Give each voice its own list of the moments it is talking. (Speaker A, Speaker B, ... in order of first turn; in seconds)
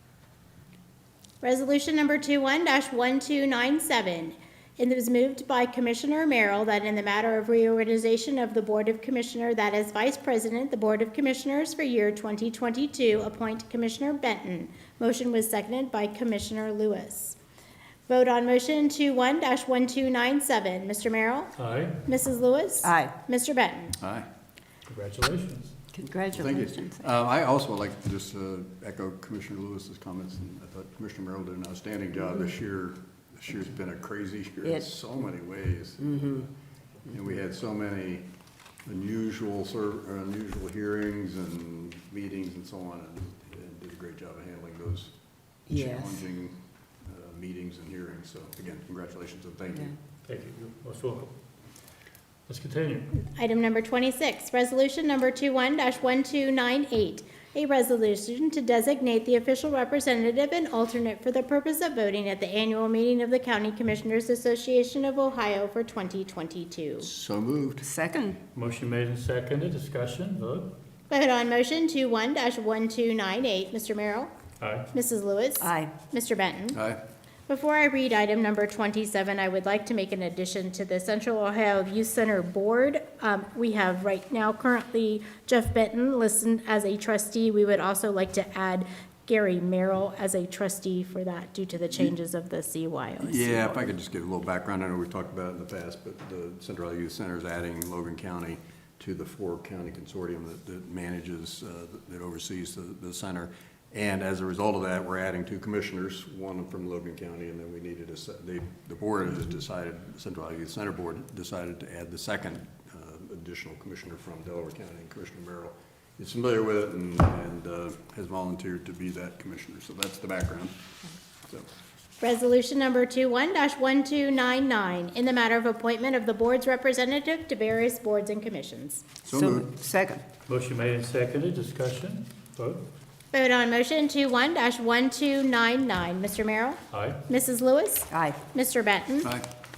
Speaker A: 1.4-17.4, 18.1-24.0, 53.2-67.1, 71.1-74.3, 74.9-76.8, 77.5-93.8, 122.2-129.0, 133.3-139.3
Speaker B: 21.6-22.0, 24.9-25.7, 50.2-51.3, 52.5-53.2, 68.5-70.7, 74.6-74.9, 130.5-132.8, 136.9-137.2
Speaker C: 22.8-23.1, 25.9-27.0, 34.6-34.9, 36.0-36.5, 45.7-46.2, 67.8-68.4, 75.6-75.9, 129.3-130.2, 138.1-138.4
Speaker D: 24.0-24.3, 26.3-36.4, 37.0-38.3, 38.8-45.1, 45.7-49.9, 67.0-67.8, 76.7-77.0, 93.2-120.7, 129.2-129.7